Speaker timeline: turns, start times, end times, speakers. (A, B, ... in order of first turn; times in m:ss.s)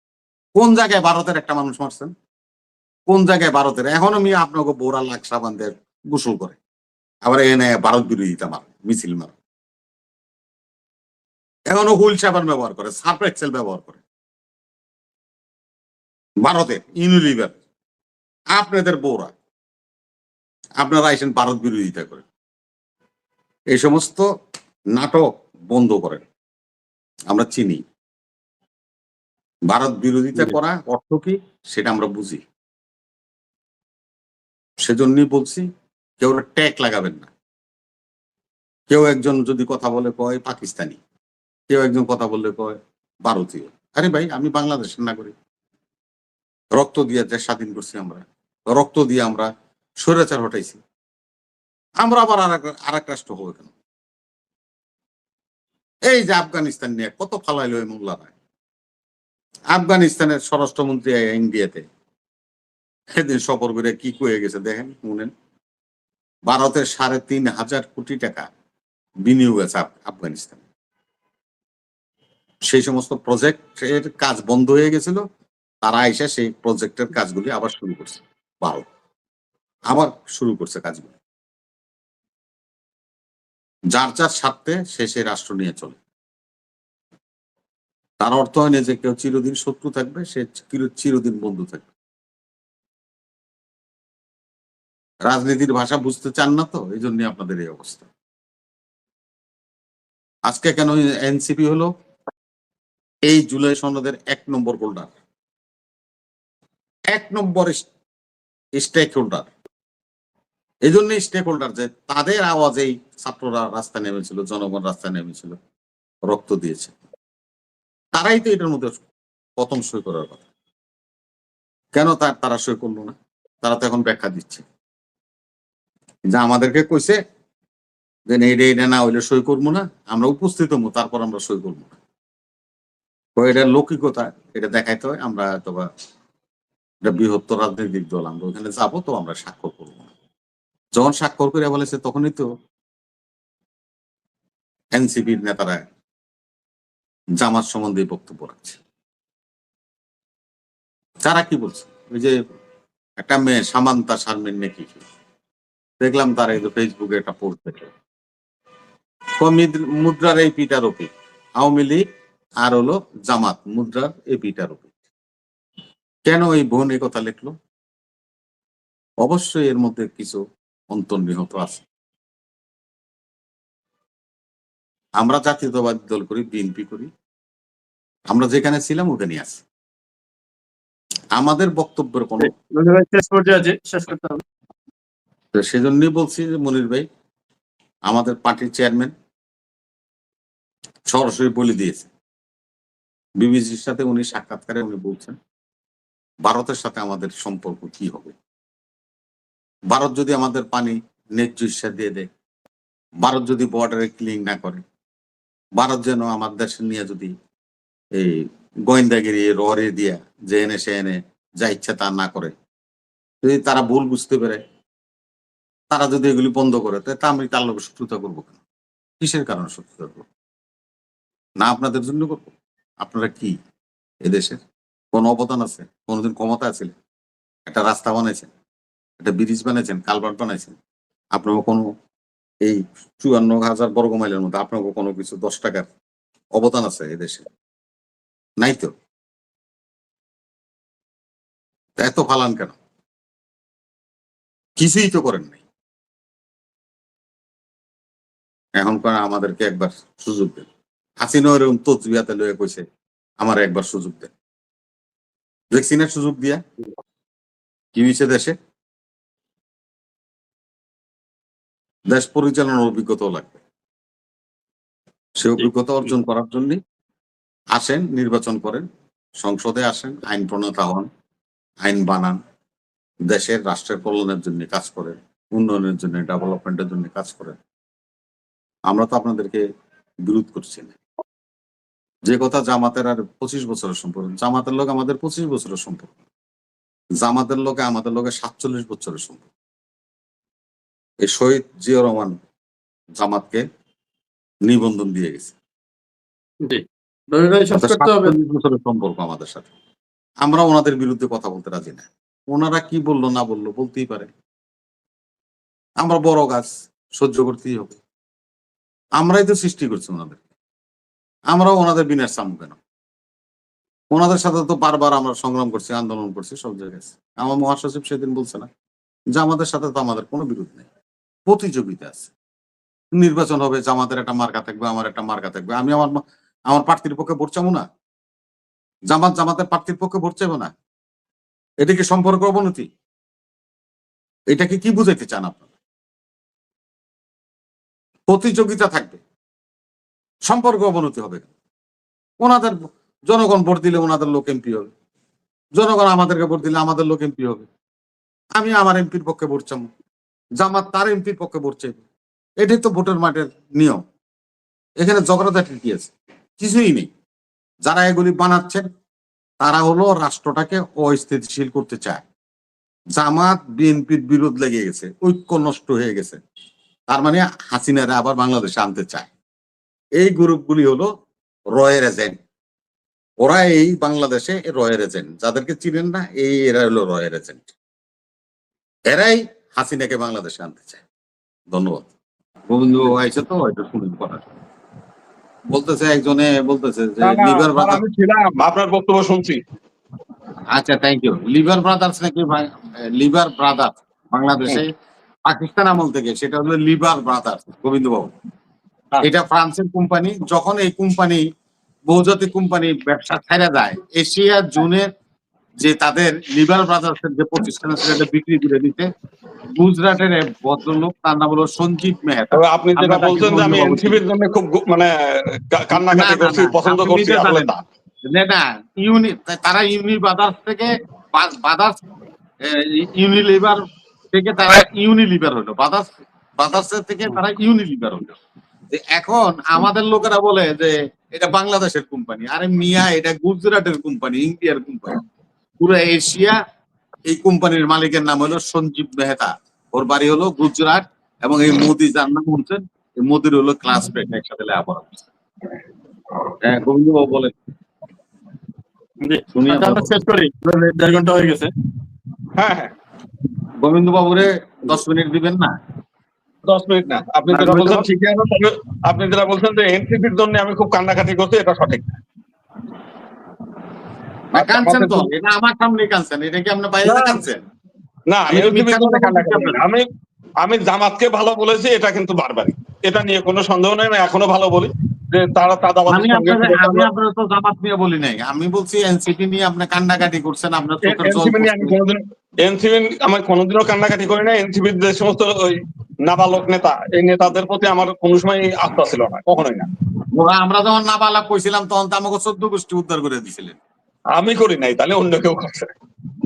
0:00.6-0:02.1 A
0:03.1-0:06.6 A
0:07.2-0:09.4 A
0:11.7-0:14.0 A
0:16.4-0:17.6 A
0:18.5-0:19.3 A
0:20.8-0:22.2 A
0:23.7-0:24.2 A
0:25.0-0:26.2 A
0:27.3-0:27.8 A
0:29.7-0:32.4 A
0:34.8-0:35.6 A
0:36.2-0:37.3 A
0:38.9-0:41.0 A
0:41.7-0:45.3 A
0:46.8-0:49.5 A
0:50.0-0:50.8 A
0:52.0-0:53.7 A
0:56.1-0:58.3 A
0:59.7-1:01.9 A
1:03.1-1:05.3 A
1:06.5-1:08.5 A
1:09.2-1:10.6 A
1:12.7-1:15.2 A
1:15.8-1:18.9 A
1:19.9-1:21.2 A
1:23.9-1:26.0 A
1:28.2-1:31.9 A
1:35.3-1:38.1 A
1:40.5-1:41.9 A
1:43.3-1:45.1 A
1:47.1-1:47.9 A
1:48.8-1:49.5 A
1:50.9-1:55.6 A
1:56.3-1:56.9 A
1:58.1-2:00.4 A
2:01.9-2:04.6 A
2:06.3-2:07.2 A
2:08.3-2:12.0 A
2:13.4-2:15.9 A
2:17.0-2:20.1 A
2:21.0-2:22.5 A
2:24.9-2:25.8 A
2:27.4-2:28.8 A
2:31.2-2:32.4 A
2:33.2-2:35.1 A
2:36.0-2:37.9 A
2:39.4-2:42.0 A
2:42.6-2:44.9 A
2:46.3-2:47.5 A
2:49.2-2:50.4 A
2:50.9-2:51.8 A
2:55.2-2:57.1 A
2:58.3-2:59.6 A
3:01.4-3:02.5 A
3:02.4-3:04.4 B
3:05.5-3:07.1 A
3:08.1-3:09.1 A
3:11.1-3:12.1 A
3:13.4-3:15.4 A
3:16.4-3:18.3 A
3:19.9-3:22.3 A
3:23.2-3:24.8 A
3:25.8-3:27.3 A
3:28.2-3:32.5 A
3:33.4-3:34.6 A
3:35.9-3:38.6 A
3:39.2-3:40.3 A
3:41.6-3:43.6 A
3:44.2-3:47.0 A
3:47.7-3:48.5 A
3:49.2-3:50.8 A
3:51.4-3:51.8 A
3:52.6-3:55.9 A
3:56.6-3:57.5 A
3:58.6-3:58.9 A
4:02.0-4:02.8 A
4:04.8-4:05.6 A
4:08.8-4:10.7 A
4:11.2-4:12.8 A
4:13.4-4:14.3 A
4:15.7-4:16.6 A
4:17.9-4:18.6 A
4:22.1-4:23.6 A
4:25.4-4:26.8 A
4:27.7-4:28.9 A
4:29.4-4:31.1 A
4:31.8-4:32.4 A
4:33.3-4:37.6 A
4:38.9-4:39.6 A
4:40.2-4:41.0 A
4:42.3-4:46.2 A
4:47.2-4:49.5 A
4:51.2-4:52.4 A
4:53.2-4:53.6 A
4:54.7-4:55.6 A
4:56.6-4:58.4 B
4:57.8-4:59.7 A
5:00.4-5:04.3 A
5:06.0-5:08.0 A
5:09.2-5:10.4 A
5:11.5-5:12.8 A
5:14.1-5:18.7 A
5:19.4-5:20.9 A
5:21.5-5:22.3 A
5:23.2-5:27.8 A
5:29.1-5:30.7 A
5:31.8-5:32.9 A
5:34.5-5:35.7 A
5:38.3-5:39.2 A
5:40.5-5:41.5 A
5:42.4-5:42.8 A
5:43.3-5:44.9 A
5:45.8-5:47.7 A
5:48.6-5:49.9 A
5:50.6-5:52.0 A
5:52.6-5:54.0 A
5:55.0-5:57.1 A
5:57.8-5:58.9 A
5:59.6-6:02.2 A
6:03.2-6:06.4 A
6:07.1-6:09.3 A
6:10.2-6:11.1 A
6:11.7-6:12.4 A
6:13.4-6:17.8 A
6:19.1-6:21.0 A
6:21.7-6:22.1 A
6:22.7-6:24.5 A
6:25.7-6:28.0 A
6:27.2-6:29.6 C
6:30.7-6:34.9 A
6:35.5-6:38.3 A
6:39.2-6:41.4 A
6:42.1-6:45.1 A
6:45.8-6:49.1 A
6:49.8-6:54.2 A
6:52.5-6:57.8 C
6:55.9-6:57.7 A
6:58.2-7:02.0 A
7:02.6-7:08.4 A
7:08.9-7:15.2 A
7:15.8-7:16.6 A
7:17.3-7:25.2 A
7:26.6-7:27.5 A
7:29.2-7:31.7 B
7:29.5-7:30.1 A
7:32.6-7:32.9 C
7:33.8-7:35.7 A
7:36.7-7:42.2 C
7:37.5-7:38.1 B
7:44.5-7:47.6 A
7:44.5-7:45.3 C
7:47.0-7:47.4 C
7:48.3-7:50.1 C
7:48.5-7:49.8 A
7:50.6-7:57.1 C
7:56.1-8:02.0 A
8:01.0-8:09.9 C
8:10.3-8:13.8 A
8:14.4-8:15.9 C